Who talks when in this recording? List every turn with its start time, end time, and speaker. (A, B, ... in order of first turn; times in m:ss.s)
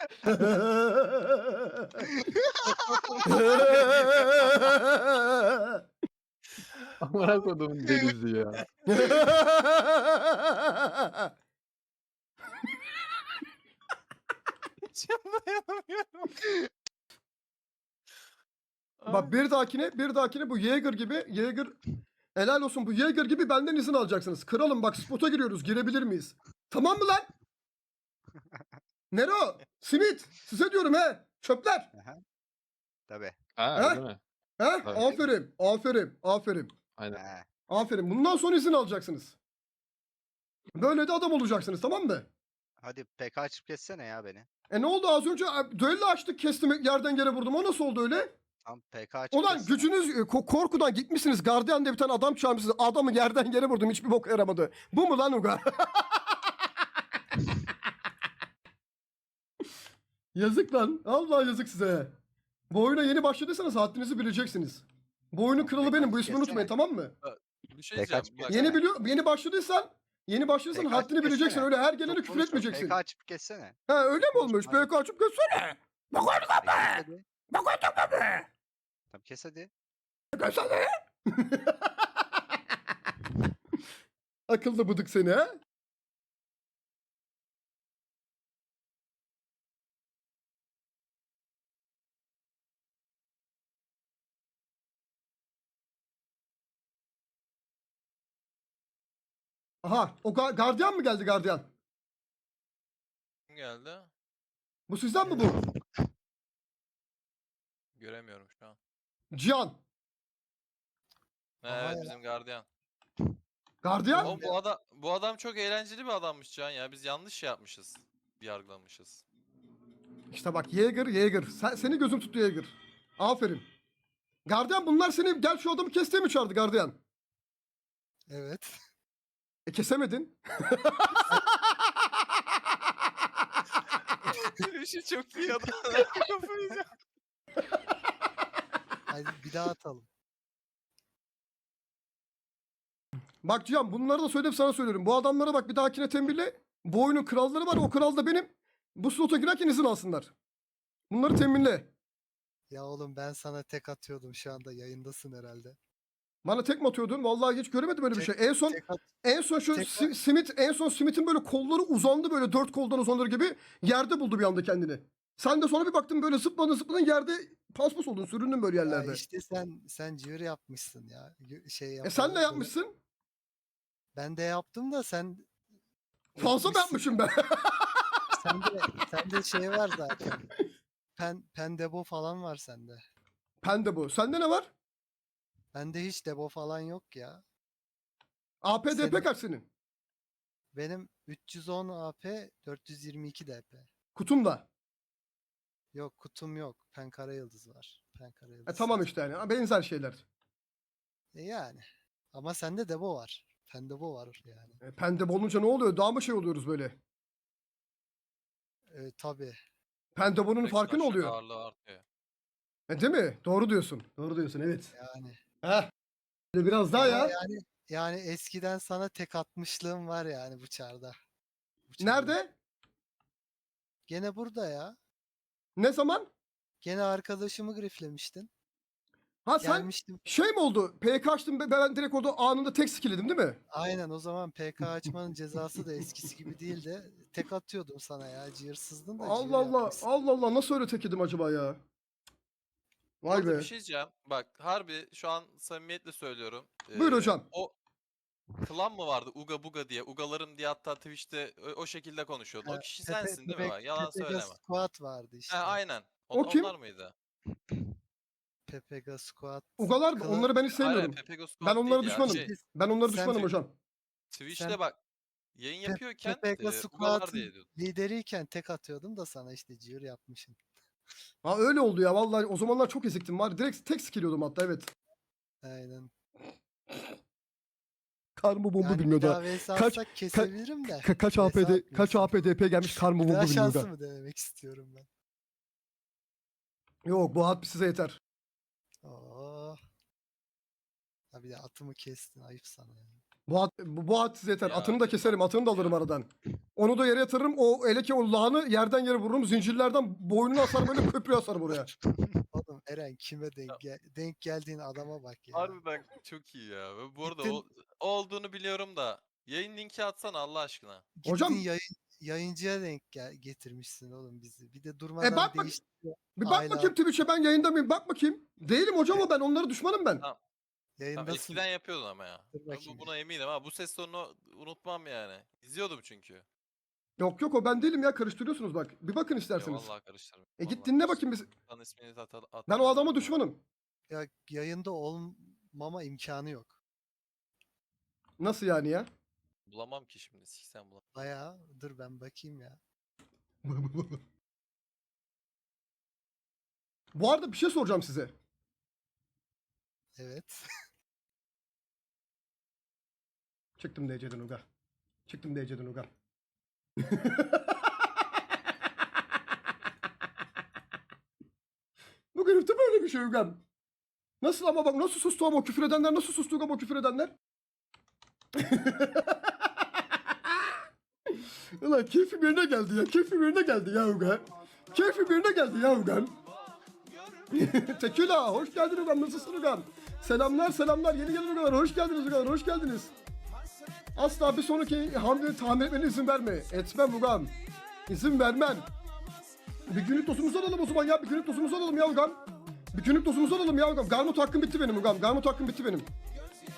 0:00.2-0:02.1 A
0:02.3-0:03.2 B
0:03.2-0:05.8 A
0:03.5-0:04.6 C
0:07.0-0:08.7 D
0:08.9-0:11.3 A
0:14.8-0:16.3 C
0:19.0-0:19.3 C
0:19.1-0:21.8 A
0:22.4-0:27.3 A
0:29.1-0:31.9 A
0:31.9-0:32.2 B
0:33.1-0:33.4 B
0:33.6-0:34.2 D
0:33.8-0:34.0 A
0:34.6-0:36.7 A
0:34.8-0:35.1 D
0:35.0-0:35.2 B
0:37.1-0:37.4 B
0:37.7-0:39.4 A
0:40.8-0:42.3 A
0:42.8-0:44.5 B
0:44.7-0:48.3 A
0:48.6-0:49.9 B
0:49.3-0:56.2 A
1:00.4-1:02.1 A
1:02.7-1:07.1 A
1:05.6-1:06.7 B
1:07.2-1:08.8 C
1:08.0-1:08.8 B
1:08.5-1:13.0 A
1:10.7-1:14.9 B
1:13.9-1:18.4 A
1:16.6-1:17.2 B
1:19.1-1:19.7 B
1:20.3-1:21.7 A
1:24.5-1:25.6 A
1:39.8-1:41.7 A
1:43.5-1:44.1 C
1:44.9-1:45.6 A
1:45.2-1:45.5 E
1:48.0-1:48.8 C
1:49.3-1:49.8 A
1:51.6-1:52.7 C
1:51.7-1:52.2 E
1:53.8-1:54.5 A
1:54.1-1:54.4 E
1:54.2-1:59.2 C
2:00.3-2:03.7 A
2:04.5-2:07.0 A
2:08.3-2:08.7 E
2:09.7-2:11.2 A
2:14.2-2:16.8 C
2:19.1-2:20.1 E
2:23.4-2:30.3 A
2:31.1-2:31.9 A
2:32.7-2:35.8 E
2:36.4-2:49.2 A
2:38.1-2:39.0 E
2:39.7-2:40.1 E
2:48.8-2:52.7 E
2:52.0-2:53.0 A
2:54.2-2:55.5 E
2:56.4-2:57.1 E
2:56.4-2:58.0 A
2:58.4-3:00.5 E
3:01.2-3:03.0 E
3:03.6-3:04.7 A
3:05.7-3:07.4 E
3:08.6-3:09.7 A
3:08.9-3:09.3 E
3:10.7-3:13.9 E
3:14.2-3:14.7 A
3:15.9-3:19.1 E
3:18.7-3:20.2 A
3:21.4-3:24.8 E
3:24.8-3:27.0 A
3:28.9-3:29.6 E
3:30.2-3:31.4 A
3:30.6-3:32.0 C
3:32.9-3:34.9 A
3:34.9-3:35.4 E
3:35.6-3:35.9 A
3:36.6-3:37.4 A
3:36.9-3:41.2 E
3:41.9-3:42.4 E
3:42.0-3:42.5 A
3:44.1-3:45.0 E
3:45.8-3:46.3 A
3:46.8-3:48.5 E
3:49.5-3:53.6 A
3:49.6-3:50.2 E
3:53.7-4:00.1 E
3:59.2-4:01.8 A
4:03.2-4:03.7 A
4:03.3-4:07.7 C
4:07.0-4:07.5 A
4:08.6-4:14.6 C
4:12.6-4:15.8 E
4:15.5-4:17.1 C
4:16.3-4:16.7 A
4:18.7-4:20.7 E
4:19.8-4:23.7 A
4:20.7-4:22.5 C
4:22.2-4:23.6 E
4:24.3-4:25.0 C
4:24.5-4:24.8 E
4:25.6-4:27.7 C
4:25.8-4:30.6 E
4:31.4-4:34.9 A
4:35.6-4:36.1 E
4:38.4-4:43.9 A
4:38.8-4:42.4 E
4:43.2-4:45.1 E
4:47.1-4:48.2 A
4:49.0-4:49.8 E
4:51.3-4:53.2 E
4:53.5-5:01.9 A
4:54.6-4:56.0 C
5:02.0-5:02.4 B
5:02.5-5:05.8 E
5:05.5-5:11.0 C
5:07.2-5:07.6 E
5:11.2-5:17.0 E
5:11.3-5:11.6 A
5:15.2-5:15.8 A
5:16.4-5:20.2 A
5:21.0-5:21.7 E
5:21.1-5:26.4 C
5:22.5-5:23.1 E
5:27.2-5:29.9 A
5:29.6-5:33.4 C
5:30.6-5:31.5 A
5:32.7-5:33.6 A
5:34.1-5:36.8 E
5:38.4-5:39.1 A
5:39.7-5:41.0 C
5:41.1-5:42.8 E
5:43.6-5:44.2 A
5:47.2-5:48.3 A
5:50.2-5:50.6 E
5:53.8-5:54.6 A
5:55.3-5:56.1 A
5:57.0-5:57.6 A
6:02.3-6:03.6 A
6:04.4-6:07.3 A
6:08.6-6:09.5 A
6:11.8-6:16.3 A
6:17.5-6:23.1 A
6:24.2-6:27.5 A
6:28.1-6:28.9 A
6:29.9-6:32.4 A
6:32.9-6:36.1 A